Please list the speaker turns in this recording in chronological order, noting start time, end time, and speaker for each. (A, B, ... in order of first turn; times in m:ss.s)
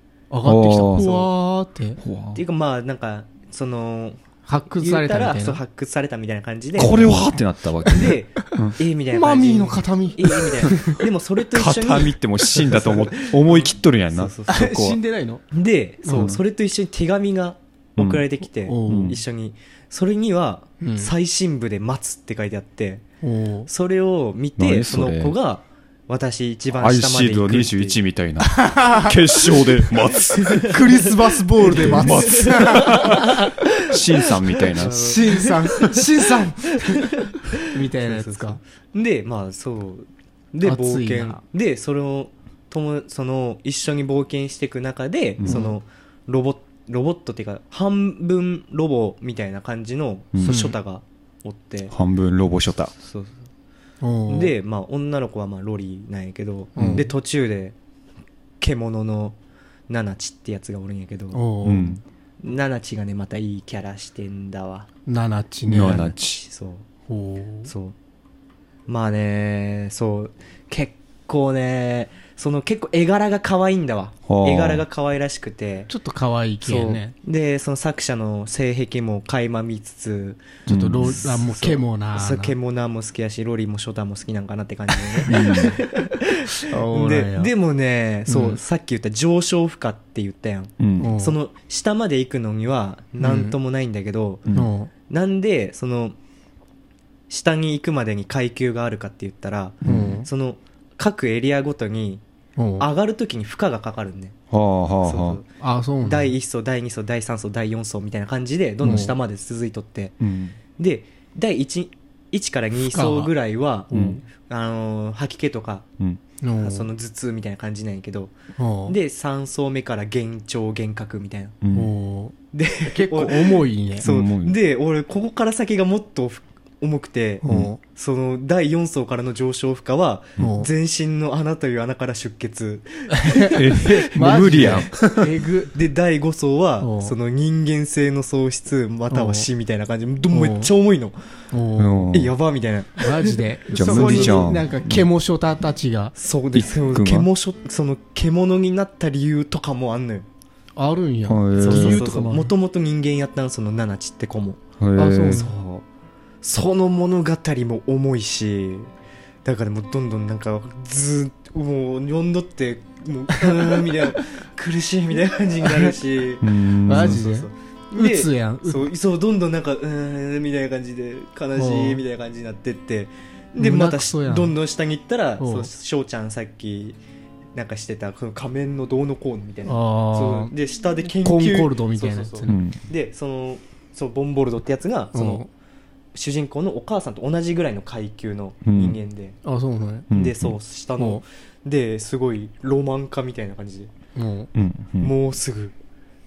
0:00.3-0:02.0 A
0:00.4-0:01.3 B
0:02.0-0:02.4 B
0:02.4-0:04.2 C
0:04.5-0:05.6 A
0:04.7-0:07.3 C
0:06.8-0:08.8 B
0:07.9-0:14.8 C
0:09.1-0:11.0 A
0:11.5-0:15.0 B
0:14.5-0:15.4 A
0:15.5-0:23.0 C
0:16.1-0:16.4 B
0:18.0-0:18.2 B
0:18.6-0:19.2 A
0:18.9-0:19.2 B
0:20.8-0:21.1 A
0:23.2-0:23.7 A
0:23.7-0:28.0 C
0:24.6-0:25.4 B
0:26.7-0:30.8 B
0:28.4-0:29.6 A
0:30.3-0:30.8 C
0:30.6-0:33.4 A
0:31.6-0:35.2 B
0:31.7-0:34.0 C
0:34.6-0:35.9 C
0:34.8-0:38.6 A
0:36.8-0:51.9 C
0:40.6-0:41.4 A
0:45.5-0:45.7 A
0:50.4-0:50.8 A
0:51.9-0:52.9 B
0:53.0-0:53.3 C
0:54.0-0:54.5 A
0:54.3-0:57.8 C
0:56.8-0:57.1 A
0:56.8-0:57.1 B
0:58.6-0:59.4 C
0:59.9-1:01.5 C
1:01.3-1:02.0 A
1:01.6-1:02.0 B
1:02.4-1:04.9 C
1:05.1-1:06.1 A
1:05.7-1:06.4 B
1:05.8-1:06.8 C
1:07.1-1:07.7 A
1:07.7-1:07.9 C
1:08.9-1:15.9 C
1:14.3-1:14.8 B
1:15.9-1:17.1 A
1:16.6-1:34.5 C
1:20.7-1:21.2 B
1:20.7-1:22.6 A
1:24.9-1:25.4 A
1:25.3-1:25.8 B
1:26.7-1:27.5 A
1:28.3-1:28.6 A
1:30.8-1:31.1 B
1:31.0-1:31.4 A
1:33.2-1:33.6 A
1:34.5-1:34.9 A
1:35.1-1:36.1 C
1:37.3-1:42.2 C
1:39.8-1:40.2 B
1:39.8-1:40.3 A
1:42.6-1:42.9 A
1:42.8-1:44.4 C
1:44.5-1:45.4 B
1:45.0-1:45.5 C
1:45.6-1:46.4 A
1:46.0-1:50.2 C
1:48.8-1:49.1 A
1:50.2-1:50.6 B
1:50.8-1:55.9 C
1:52.9-1:53.3 A
1:53.9-1:54.2 A
1:53.9-1:54.2 B
1:56.4-1:56.9 A
1:56.6-1:58.3 C
1:58.6-1:59.0 A
1:58.9-2:01.6 C
2:01.6-2:01.9 B
2:01.7-2:02.4 A
2:02.5-2:14.9 C
2:02.9-2:04.1 A
2:04.0-2:04.6 B
2:07.4-2:07.8 A
2:10.4-2:10.7 A
2:13.1-2:15.7 A
2:13.5-2:15.3 B
2:15.7-2:21.2 C
2:16.8-2:17.1 A
2:19.1-2:19.5 A
2:20.3-2:20.7 A
2:21.5-2:22.1 A
2:21.8-2:22.4 B
2:22.1-2:24.4 C
2:23.0-2:26.1 A
2:23.7-2:25.1 B
2:26.2-2:30.3 C
2:26.5-2:27.3 B
2:30.8-2:32.5 A
2:31.3-2:32.2 B
2:31.6-2:34.6 C
2:34.8-2:35.4 B
2:35.0-2:35.5 A
2:35.3-2:35.8 C
2:36.4-2:38.9 C
2:39.4-2:57.0 C
2:43.4-2:43.9 A
2:46.4-2:47.2 B
2:46.9-2:48.9 A
2:51.6-2:52.0 A
2:53.6-2:54.6 A
2:55.4-2:55.7 A
2:57.6-3:05.4 C
2:59.6-3:00.5 A
3:01.2-3:02.6 A
3:02.5-3:02.8 B
3:05.1-3:05.5 A
3:06.1-3:09.4 C
3:08.6-3:09.0 B
3:09.4-3:10.1 A
3:10.1-3:10.6 B
3:10.1-3:13.9 C
3:11.0-3:11.2 A
3:14.1-3:14.5 A
3:14.6-3:15.1 B
3:15.0-3:15.7 C